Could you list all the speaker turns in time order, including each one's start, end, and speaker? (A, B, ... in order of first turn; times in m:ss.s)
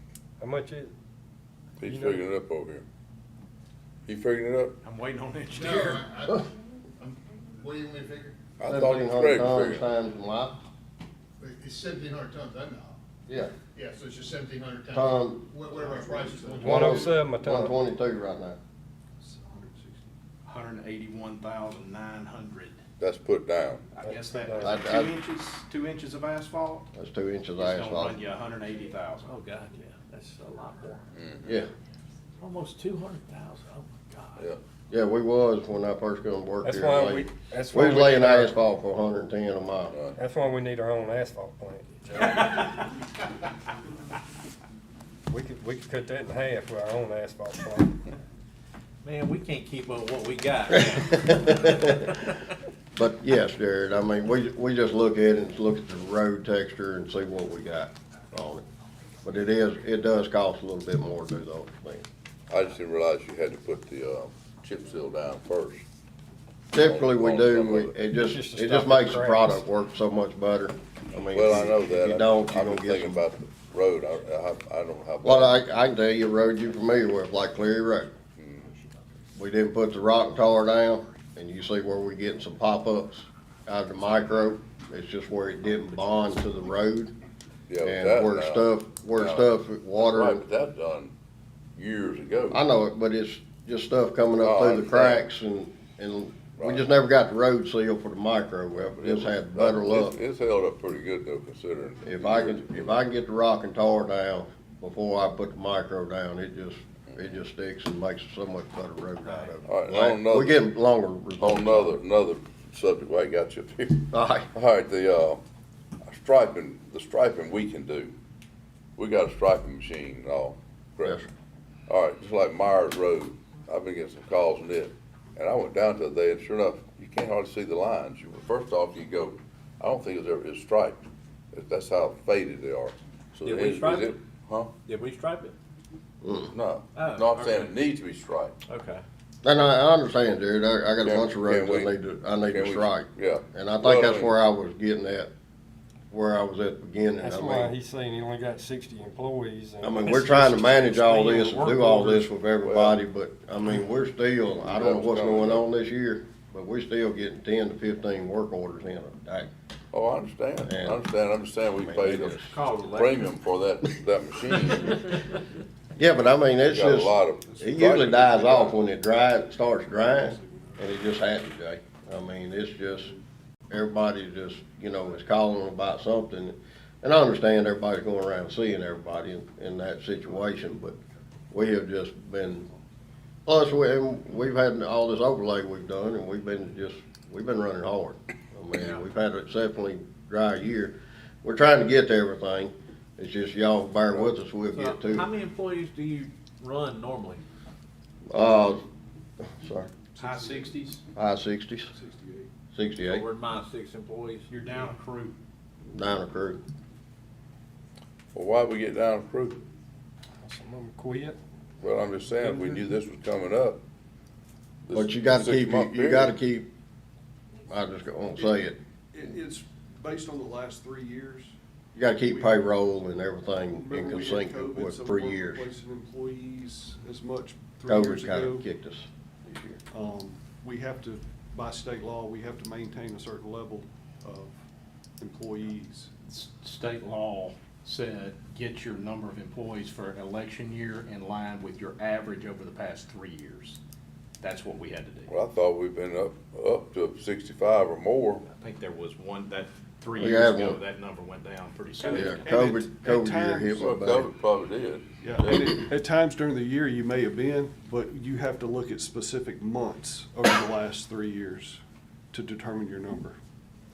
0:00.4-0:00.9 A
0:01.8-0:02.8 B
0:01.8-0:02.2 A
0:04.1-0:04.8 B
0:04.8-0:06.1 C
0:05.5-0:06.4 D
0:07.0-0:08.4 D
0:08.6-0:09.8 B
0:08.6-0:10.6 E
0:11.4-0:13.0 D
0:13.3-0:13.5 E
0:13.7-0:17.0 D
0:14.9-0:15.4 E
0:15.8-0:17.1 F
0:16.6-0:17.8 A
0:16.6-0:18.6 E
0:19.2-0:20.1 F
0:20.4-0:22.8 C
0:23.0-0:23.9 B
0:23.9-0:26.9 C
0:24.0-0:24.8 A
0:24.6-0:25.1 E
0:26.9-0:28.2 E
0:27.6-0:29.3 C
0:29.2-0:31.0 G
0:31.1-0:31.6 B
0:32.4-0:34.4 G
0:34.9-0:40.0 E
0:36.6-0:38.6 A
0:40.1-0:42.5 A
0:42.2-0:42.6 C
0:45.3-0:48.0 A
0:49.0-0:51.8 G
0:51.2-0:52.1 E
0:52.9-0:58.6 E
0:59.2-1:02.0 E
1:02.5-1:05.8 B
1:06.7-1:13.2 E
1:06.7-1:07.9 B
1:08.2-1:09.6 A
1:11.3-1:15.6 B
1:15.2-1:18.1 E
1:18.4-1:18.6 B
1:19.3-1:27.1 E
1:27.7-1:31.1 B
1:27.8-1:30.4 E
1:31.8-1:32.6 B
1:32.5-1:40.2 E
1:34.4-1:35.2 B
1:36.6-1:36.8 B
1:39.0-1:43.0 B
1:42.0-1:52.0 E
1:49.2-1:49.5 G
1:49.7-1:50.6 B
1:51.4-1:55.4 B
1:54.1-1:54.5 E
1:56.0-1:58.1 B
1:59.0-2:01.2 B
2:01.9-2:14.7 B
2:13.4-2:14.2 G
2:14.8-2:15.6 G
2:16.2-2:16.5 E
2:16.5-2:18.5 B
2:16.9-2:17.7 G
2:18.6-2:19.0 G
2:19.4-2:25.3 E
2:21.0-2:21.9 B
2:22.5-2:24.3 B
2:26.1-2:27.7 E
2:27.2-2:31.8 A
2:29.8-2:39.5 E
2:32.6-2:33.0 B
2:34.6-2:35.6 B
2:39.9-2:45.2 B
2:40.6-2:41.0 E
2:41.8-2:42.5 E
2:42.4-2:43.3 G
2:45.9-2:53.1 E
2:46.7-2:48.8 B
2:47.4-2:48.2 F
2:49.8-2:51.0 F
2:52.9-2:53.2 F
2:53.7-3:01.0 E
3:01.5-3:02.7 E
3:03.4-3:15.3 E
3:08.8-3:09.0 G
3:14.7-3:17.4 G
3:18.3-3:18.8 E
3:19.4-3:19.9 E
3:20.1-3:20.8 F
3:20.2-3:21.0 C
3:21.1-3:21.9 E
3:21.9-3:22.5 F
3:22.7-3:23.2 E
3:23.0-3:24.5 G
3:24.5-3:25.4 C
3:25.9-3:26.6 E
3:28.3-3:29.6 B
3:30.4-3:31.4 A
3:31.8-3:33.8 B
3:34.8-3:36.3 B
3:34.9-3:36.7 E
3:37.6-3:38.8 E
3:38.3-3:38.6 F
3:39.1-3:41.5 F
3:41.9-3:45.6 E
3:42.3-3:42.7 F
3:43.6-3:48.7 F
3:47.9-3:49.8 E
3:49.9-3:54.6 F
3:55.2-3:56.1 F
3:56.2-4:03.8 C
4:04.4-4:05.3 C
4:05.3-4:08.4 B
4:08.5-4:12.6 C
4:10.2-4:10.8 E
4:12.0-4:13.8 F
4:12.1-4:14.3 E
4:13.7-4:15.9 B
4:15.2-4:21.8 F
4:22.3-4:23.4 F